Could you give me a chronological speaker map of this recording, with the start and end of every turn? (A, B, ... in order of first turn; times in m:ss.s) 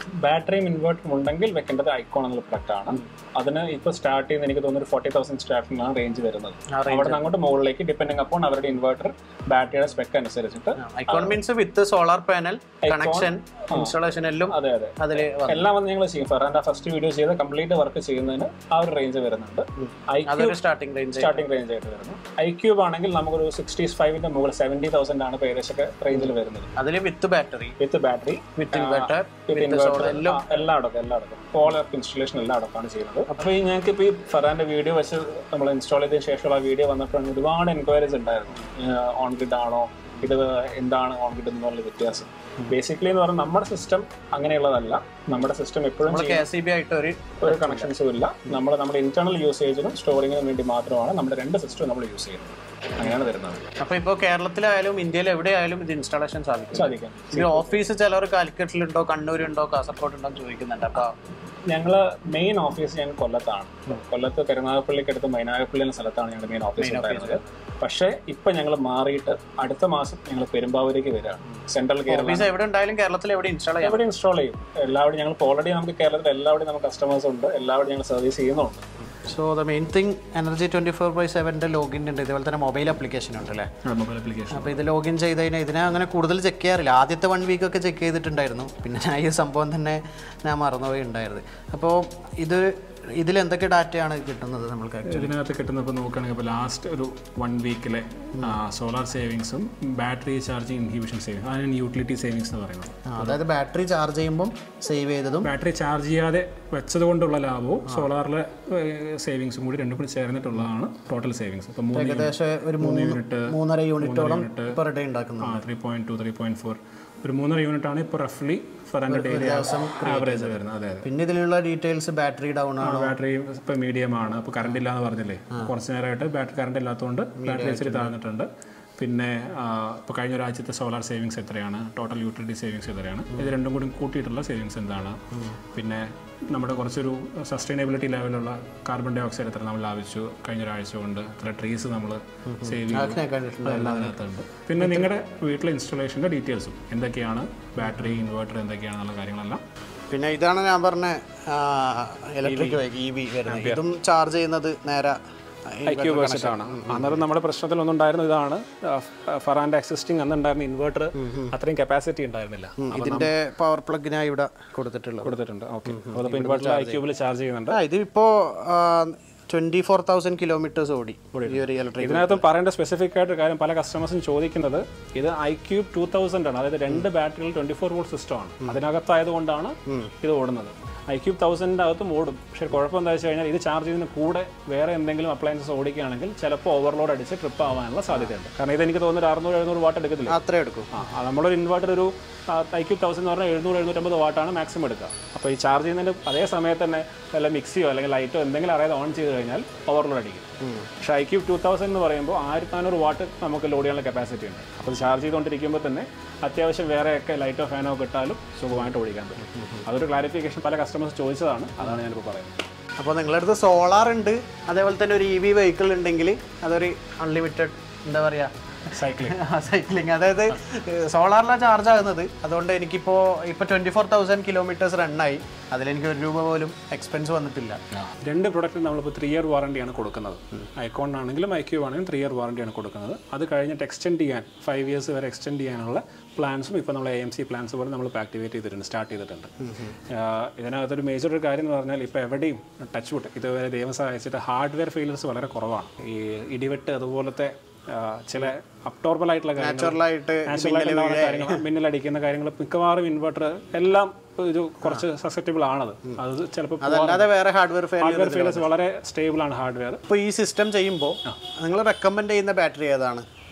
0:00.2-0:11.4 A
0:06.7-0:07.3 B
0:10.8-0:15.7 B
0:12.8-0:13.9 A
0:14.5-0:20.6 A
0:19.8-0:21.4 B
0:21.2-0:26.7 A
0:26.1-0:27.8 B
0:27.8-0:46.5 A
0:28.6-0:30.6 B
0:46.0-0:47.9 B
0:47.4-0:53.6 A
0:53.8-1:01.1 B
0:56.7-0:57.8 A
1:01.7-1:12.5 A
1:06.8-1:07.4 B
1:12.1-1:14.0 B
1:13.8-1:18.8 A
1:19.2-1:23.7 B
1:23.8-1:24.8 A
1:24.5-1:35.3 B
1:35.1-1:43.4 A
1:43.1-1:45.5 B
1:45.4-1:54.8 A
1:51.9-1:55.6 B
1:55.4-2:01.1 A
1:59.1-2:03.2 B
2:02.8-2:08.5 A
2:07.4-2:08.1 B
2:09.0-2:29.6 A
2:22.5-2:24.2 B
2:24.8-2:25.1 B
2:27.8-2:28.3 B
2:30.1-2:35.2 B
2:32.4-2:32.8 A
2:33.4-2:33.8 A
2:35.7-2:37.2 B
2:35.8-2:43.3 A
2:41.2-2:41.5 B
2:42.8-2:45.3 B
2:45.2-2:47.8 A
2:45.8-2:47.0 B
2:47.7-2:52.4 B
2:51.3-3:10.4 A
2:59.8-3:00.1 B
3:10.3-3:10.9 B
3:10.9-3:20.4 A
3:20.6-3:20.9 B
3:21.0-3:32.6 A
3:29.5-3:29.8 B
3:33.0-3:47.8 B
3:38.9-3:39.4 A
3:48.0-3:59.5 A
3:59.6-3:59.9 B
4:00.1-4:17.3 A
4:09.6-4:11.6 B
4:16.8-4:18.7 B
4:18.0-4:20.0 A
4:20.1-4:23.2 B